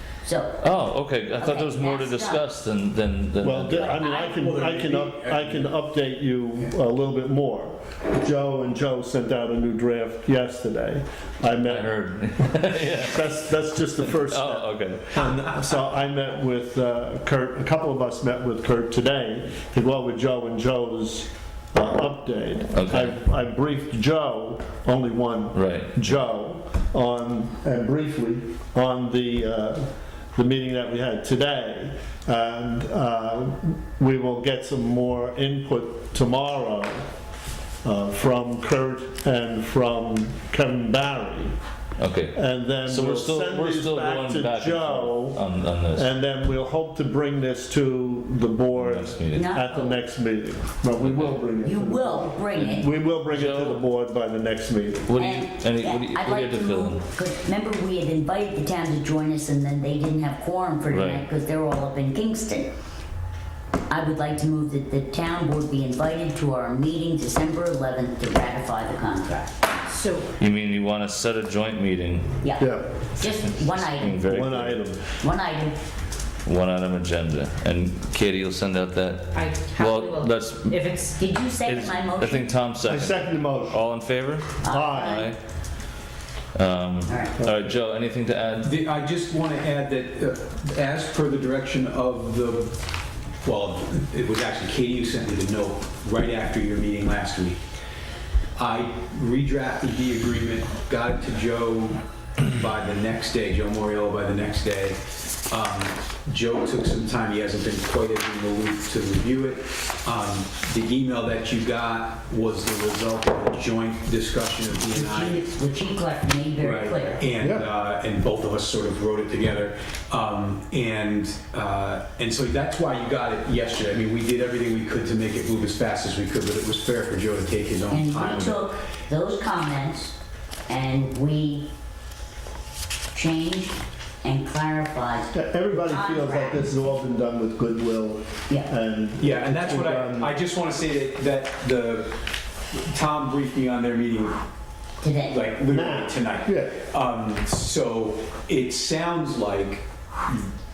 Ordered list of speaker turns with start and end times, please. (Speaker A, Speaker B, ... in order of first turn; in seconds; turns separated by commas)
Speaker A: 0.2-0.7, Speaker B: 0.6-4.0, Speaker A: 1.4-2.4, Speaker C: 3.4-37.0, Speaker A: 3.7-4.3, Speaker D: 4.0-5.8, Speaker B: 11.7-15.2, Speaker B: 22.7-23.2, Speaker B: 25.5-26.1, Speaker C: 37.8-41.5, Speaker B: 42.0-46.1, Speaker C: 42.3-55.1, Speaker B: 48.7-49.5, Speaker A: 49.3-50.0, Speaker B: 51.0-51.4, Speaker A: 51.6-52.9, Speaker B: 53.2-53.8, Speaker B: 55.1-57.0, Speaker A: 55.2-62.7, Speaker B: 60.9-61.2, Speaker A: 63.9-69.5, Speaker E: 69.9-70.2, Speaker B: 70.4-72.3, Speaker A: 72.4-74.4, Speaker C: 72.6-72.9, Speaker B: 73.4-74.8, Speaker C: 74.2-75.0, Speaker A: 75.2-75.8, Speaker B: 76.4-81.1, Speaker E: 79.3-81.1, Speaker A: 81.2-82.5, Speaker B: 81.6-85.4, Speaker C: 82.8-83.8, Speaker A: 84.6-85.3, Speaker C: 84.7-85.3, Speaker B: 86.5-88.7, Speaker A: 87.1-87.3, Speaker C: 87.4-87.7, Speaker D: 88.6-92.7, Speaker D: 93.4-97.6, Speaker D: 98.5-105.0, Speaker D: 105.5-115.4, Speaker A: 114.9-117.2, Speaker D: 116.6-128.7, Speaker C: 117.4-117.7, Speaker A: 127.9-130.2, Speaker A: 130.7-131.7, Speaker A: 133.1-136.7, Speaker C: 135.3-140.3, Speaker D: 139.2-142.2, Speaker D: 142.7-144.4, Speaker A: 145.0-145.4, Speaker D: 145.3-150.5, Speaker C: 145.6-146.8